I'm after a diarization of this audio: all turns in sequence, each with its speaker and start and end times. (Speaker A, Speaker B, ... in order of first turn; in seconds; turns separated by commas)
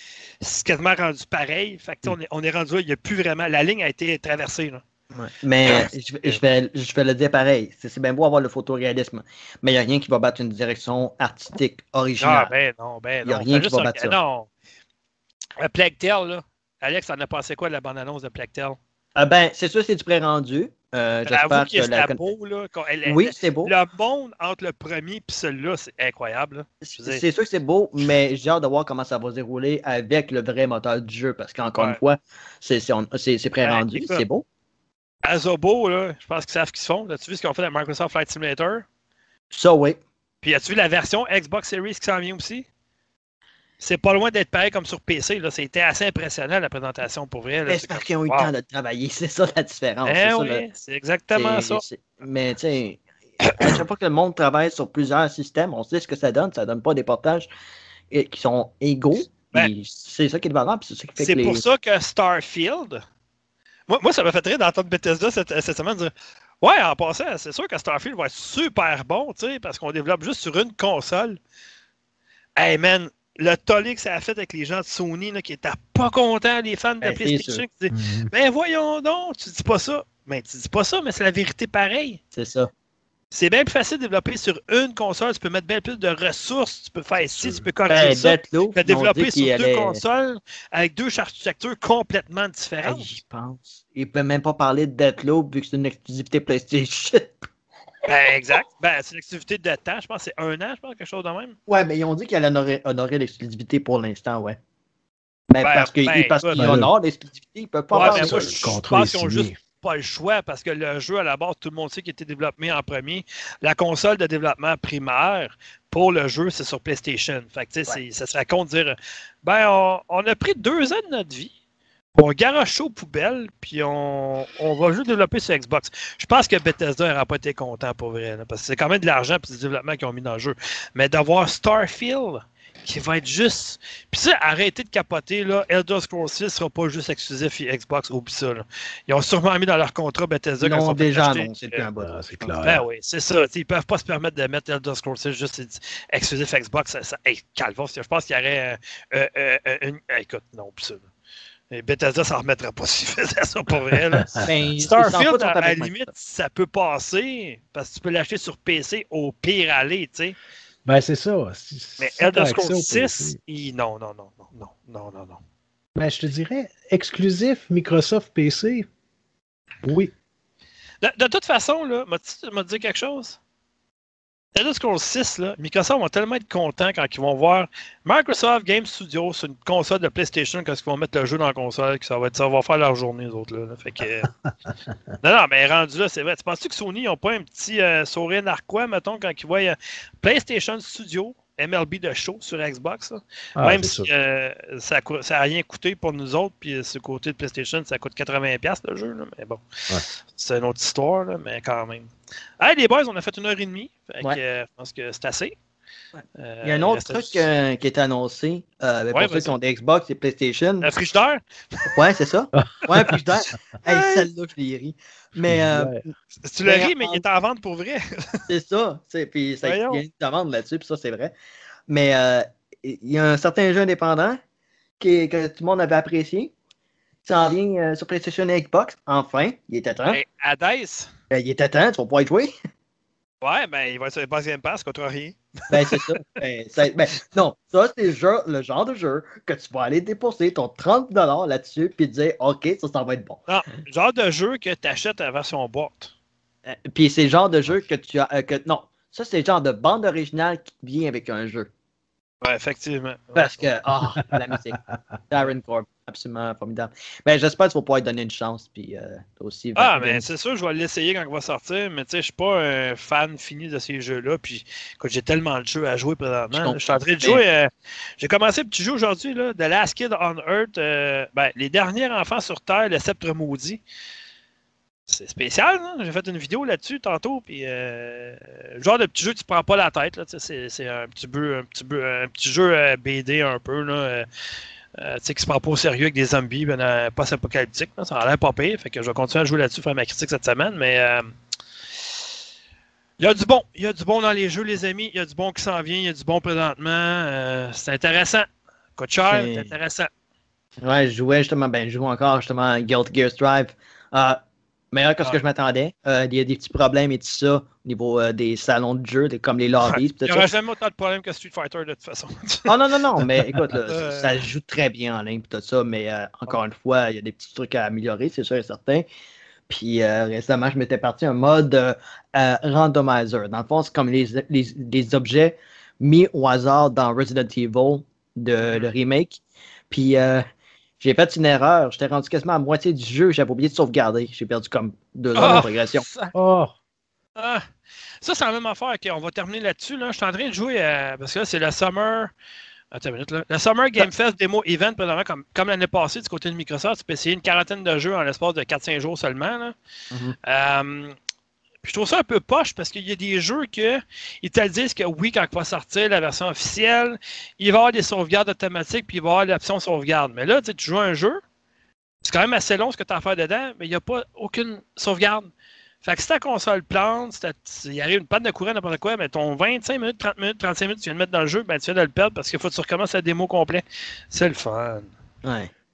Speaker A: 0.4-4.8, Speaker B: 5.1-12.5, Speaker A: 5.6-6.4, Speaker A: 12.2-14.5, Speaker B: 13.2-14.2, Speaker A: 15.6-18.8, Speaker B: 19.2-22.2, Speaker A: 21.3-27.2, Speaker B: 23.1-23.8, Speaker B: 26.8-34.5, Speaker A: 33.6-34.2, Speaker A: 35.2-38.9, Speaker B: 39.5-40.0, Speaker A: 40.4-42.7, Speaker A: 43.8-48.5, Speaker B: 47.7-50.6, Speaker A: 50.1-51.8, Speaker B: 51.3-57.5, Speaker B: 58.1-61.6, Speaker A: 61.2-63.0, Speaker A: 63.9-71.4, Speaker A: 72.6-82.2, Speaker B: 77.0-77.7, Speaker C: 77.9-78.3, Speaker B: 82.3-82.7, Speaker A: 83.3-93.2, Speaker C: 87.2-87.7, Speaker B: 87.9-90.0, Speaker B: 92.8-97.5, Speaker A: 98.1-101.6, Speaker B: 101.7-104.6, Speaker B: 105.5-108.8, Speaker A: 105.6-106.8, Speaker C: 106.6-106.9, Speaker A: 107.9-121.5, Speaker C: 108.0-109.5, Speaker A: 122.2-141.8, Speaker B: 140.6-142.5, Speaker C: 142.0-142.8, Speaker A: 142.6-151.1, Speaker A: 151.7-160.4, Speaker C: 154.2-154.9, Speaker B: 154.4-156.1, Speaker C: 160.8-163.4, Speaker A: 162.0-165.4, Speaker C: 165.9-168.9, Speaker C: 169.8-170.1, Speaker A: 171.0-173.4, Speaker A: 174.6-184.3, Speaker A: 185.2-205.6, Speaker C: 193.6-194.1, Speaker A: 206.4-207.4, Speaker B: 206.6-210.9, Speaker A: 209.1-209.5, Speaker A: 210.8-211.9, Speaker B: 211.9-216.1, Speaker C: 212.6-213.2, Speaker A: 213.9-214.3, Speaker C: 215.5-216.0, Speaker A: 216.4-218.4, Speaker B: 216.7-217.2, Speaker B: 218.5-221.3, Speaker A: 219.6-220.0, Speaker B: 221.9-224.4, Speaker B: 225.0-226.5, Speaker B: 227.2-230.2, Speaker A: 230.1-231.1, Speaker B: 231.3-232.5, Speaker A: 233.4-236.1, Speaker B: 235.7-243.4, Speaker A: 243.5-246.1, Speaker B: 246.7-251.7, Speaker A: 252.4-253.7, Speaker B: 253.3-254.8, Speaker C: 254.5-255.0, Speaker B: 255.3-260.3, Speaker A: 259.8-273.8, Speaker B: 266.5-267.4, Speaker A: 275.1-284.3, Speaker A: 285.0-291.3, Speaker A: 293.2-300.1, Speaker B: 299.3-299.7, Speaker B: 300.8-304.4, Speaker B: 304.9-310.5, Speaker A: 309.9-312.7, Speaker B: 312.7-319.1, Speaker A: 313.9-314.4, Speaker B: 319.7-330.5, Speaker A: 328.6-328.9, Speaker B: 331.0-336.1, Speaker A: 335.4-336.3, Speaker C: 336.3-336.7, Speaker A: 337.4-337.6, Speaker A: 338.2-342.3, Speaker A: 342.9-349.8, Speaker A: 350.4-351.1, Speaker A: 351.8-361.4, Speaker A: 362.2-365.5, Speaker A: 366.0-375.1, Speaker B: 375.4-375.7